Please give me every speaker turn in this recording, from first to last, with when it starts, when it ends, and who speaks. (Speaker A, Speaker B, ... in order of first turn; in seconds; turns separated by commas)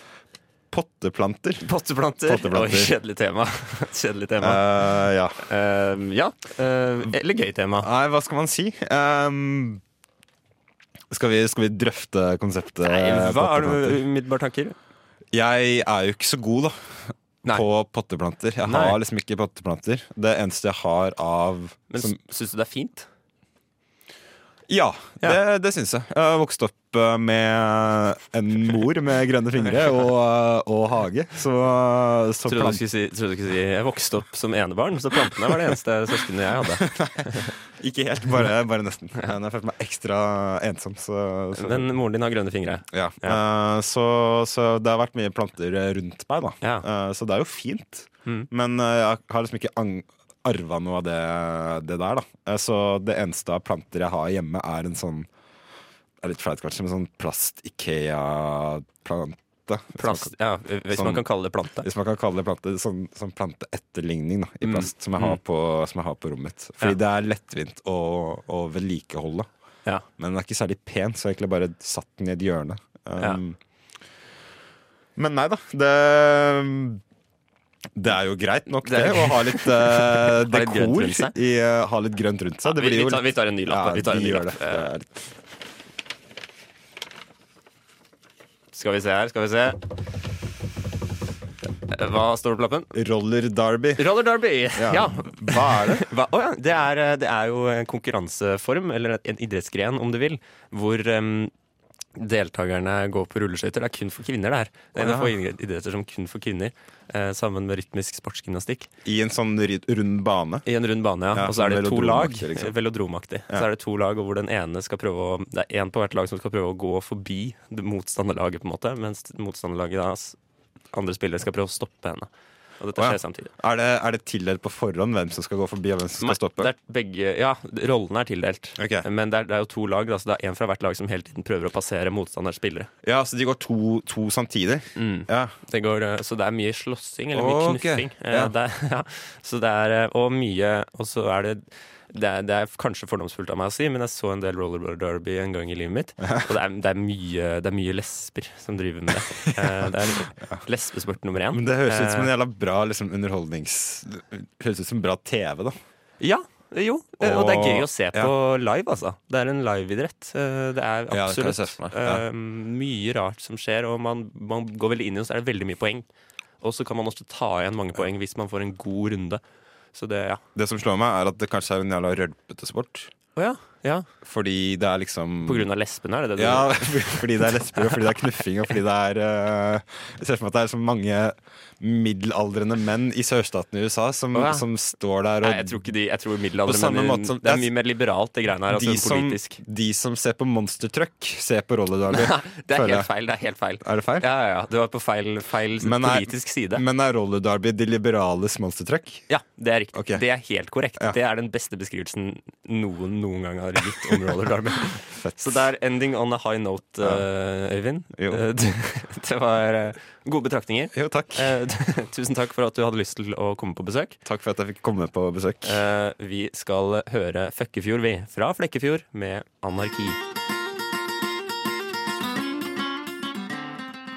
Speaker A: 0.7-1.7, Speaker B: 1.6-4.6, Speaker A: 2.2-2.9, Speaker A: 4.4-5.4, Speaker B: 5.4-7.9, Speaker A: 7.8-9.8, Speaker A: 11.1-14.0, Speaker B: 12.8-14.7, Speaker A: 15.3-22.2, Speaker B: 18.6-19.0, Speaker B: 21.9-23.1, Speaker A: 24.7-32.8, Speaker B: 32.5-37.5, Speaker A: 37.0-41.9, Speaker B: 41.5-43.4, Speaker A: 42.9-55.3, Speaker A: 56.2-60.3, Speaker B: 60.0-61.9, Speaker A: 60.9-61.3, Speaker A: 61.8-69.5, Speaker B: 64.6-65.4, Speaker A: 70.2-73.6, Speaker A: 75.2-77.0, Speaker A: 78.0-85.1, Speaker B: 78.8-81.3, Speaker B: 82.6-84.9, Speaker B: 88.7-89.8, Speaker B: 91.9-92.9, Speaker A: 92.9-94.1, Speaker B: 94.0-101.5, Speaker A: 94.7-96.0, Speaker B: 102.2-108.9, Speaker A: 104.9-105.3, Speaker A: 109.0-110.7, Speaker B: 110.7-120.4, Speaker A: 111.3-112.7, Speaker B: 120.9-123.5, Speaker A: 123.0-126.7, Speaker B: 126.2-132.9, Speaker A: 128.8-129.1, Speaker A: 133.0-135.5, Speaker B: 135.0-152.3, Speaker A: 137.3-138.5, Speaker A: 146.2-146.5, Speaker A: 149.3-149.9, Speaker A: 151.5-155.7, Speaker B: 156.2-166.1, Speaker A: 157.2-158.3, Speaker A: 161.1-162.2, Speaker B: 166.6-169.4, Speaker B: 169.9-170.4, Speaker A: 170.5-173.1, Speaker B: 173.3-174.1, Speaker A: 174.2-175.7, Speaker B: 175.4-178.0, Speaker A: 176.3-185.9, Speaker B: 184.3-184.7, Speaker B: 185.4-189.6, Speaker A: 186.6-187.7, Speaker A: 188.7-193.1, Speaker B: 192.1-196.8, Speaker A: 193.8-194.3, Speaker A: 195.8-199.2, Speaker B: 199.3-214.2, Speaker A: 199.9-200.2, Speaker A: 204.9-205.6, Speaker A: 208.2-208.4, Speaker A: 210.9-211.6, Speaker A: 214.2-215.8, Speaker B: 215.6-220.2